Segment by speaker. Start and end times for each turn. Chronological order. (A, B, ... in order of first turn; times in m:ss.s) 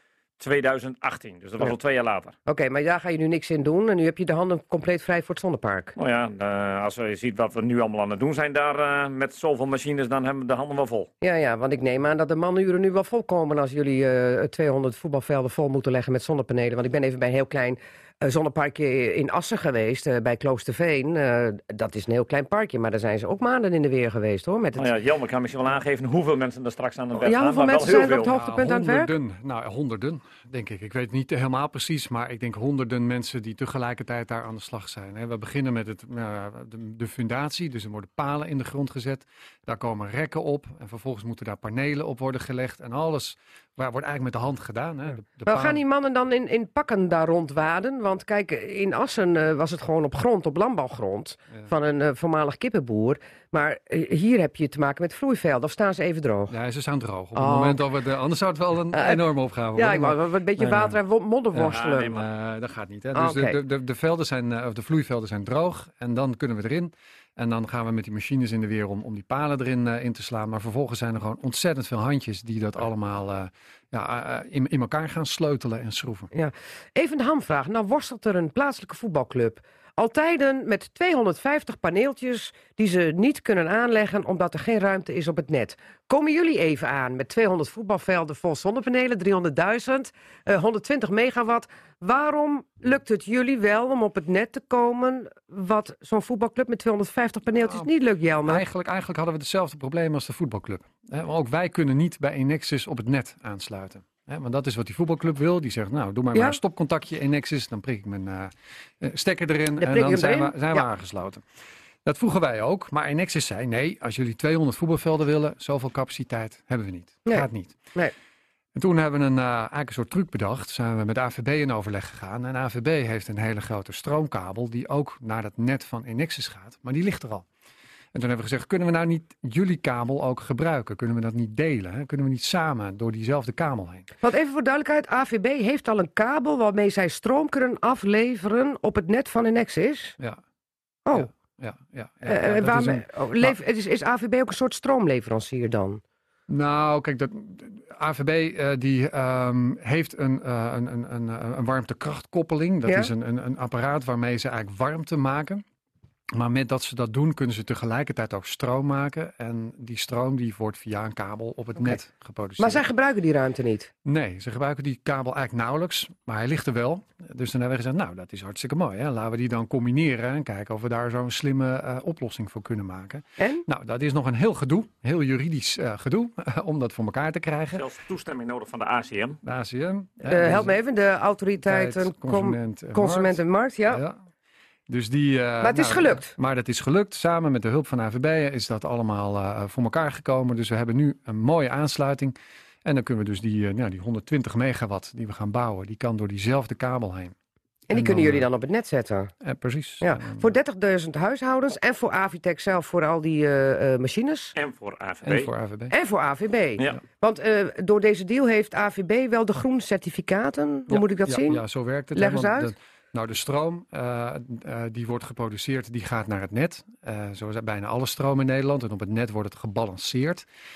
0:00.4-0:02.3 A
0:02.5-0:05.9 B
0:06.0-0:11.1 A
0:11.2-0:24.9 B
0:24.8-0:28.4 A
0:27.2-0:29.1 B
0:28.3-0:45.8 C
0:45.5-0:56.6 B
0:56.5-1:01.0 C
0:57.4-0:57.8 B
0:58.9-1:02.2 B
1:01.5-1:16.3 C
1:01.7-1:02.3 A
1:03.2-1:03.6 B
1:16.3-1:38.7 B
1:37.6-1:37.9 C
1:38.5-1:51.4 C
1:46.3-1:46.6 B
1:49.8-1:50.9 B
1:52.0-1:57.8 C
1:57.2-1:58.1 B
1:58.8-2:07.5 C
2:08.1-2:14.1 C
2:14.2-2:20.2 B
2:21.2-2:23.6 C
2:22.3-2:26.0 B
2:26.5-2:35.6 C
2:32.9-2:33.1 B
2:36.3-2:42.8 C
2:42.6-2:43.9 B
2:44.0-2:57.8 C
2:53.4-2:53.6 B
2:57.7-2:59.4 A
2:59.4-3:00.8 C
3:00.3-3:04.0 B
3:01.6-3:04.2 C
3:04.9-3:17.3 C
3:05.6-3:06.3 B
3:17.9-3:19.3 B
3:17.9-3:18.5 C
3:19.4-3:20.5 C
3:20.0-3:24.6 B
3:24.6-3:25.5 A
3:25.2-3:25.9 C
3:25.9-3:31.6 B
3:30.9-3:40.4 C
3:32.1-3:32.7 B